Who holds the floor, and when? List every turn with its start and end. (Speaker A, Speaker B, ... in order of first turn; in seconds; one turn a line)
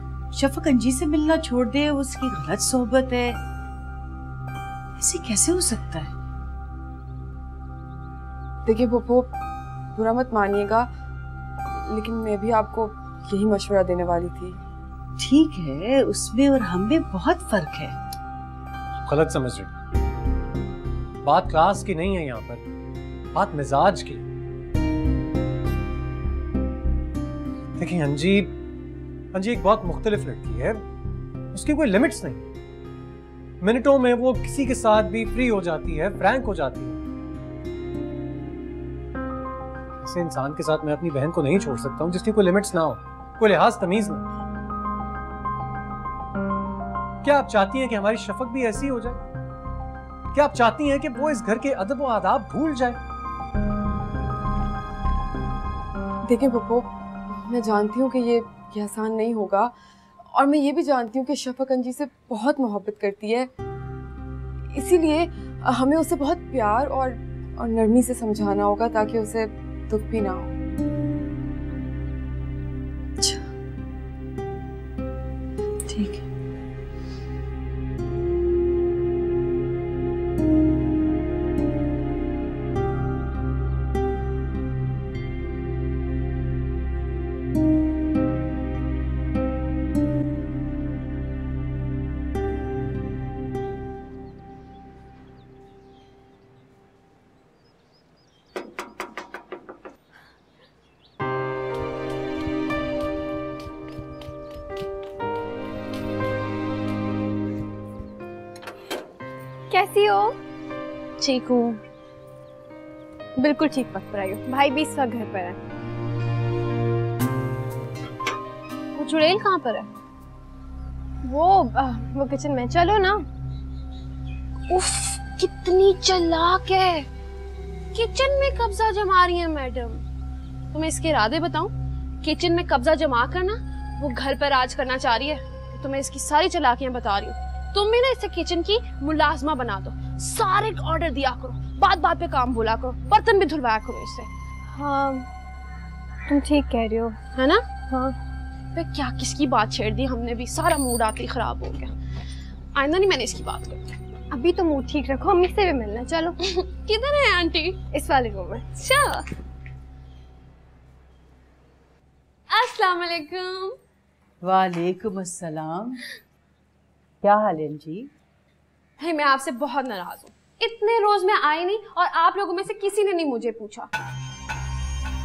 Speaker A: 0.3-3.4
Speaker A: 5.0-6.1
Speaker B: 8.6-9.3
Speaker B: 9.9-10.9
Speaker B: 11.7-14.6
Speaker A: 15.2-17.9
Speaker C: 19.0-19.7
Speaker C: 21.2-22.6
Speaker C: 23.3-24.2
Speaker C: 27.8-28.5
Speaker C: 29.3-30.8
Speaker C: 31.5-32.4
Speaker C: 33.6-37.0
Speaker C: 40.0-44.2
Speaker C: 47.2-49.2
Speaker C: 50.3-53.0
Speaker B: 56.2-59.7
Speaker B: 60.3-63.5
Speaker B: 64.7-70.5
Speaker A: 73.2-73.5
Speaker A: 75.9-76.2
Speaker D: 109.7-110.4
Speaker E: 111.2-111.8
Speaker D: 113.4-115.6
Speaker E: 119.0-119.9
Speaker D: 121.2-123.2
Speaker E: 124.7-127.1
Speaker E: 127.9-130.0
Speaker E: 130.7-144.3
Speaker D: 144.7-145.3
Speaker D: 146.3-147.2
Speaker E: 147.3-147.6
Speaker D: 147.9-148.2
Speaker E: 148.7-151.9
Speaker E: 152.7-153.9
Speaker D: 154.3-156.4
Speaker E: 156.6-157.8
Speaker D: 157.9-159.2
Speaker E: 162.5-163.8
Speaker A: 164.4-166.0
Speaker A: 167.2-168.1
Speaker E: 169.0-173.9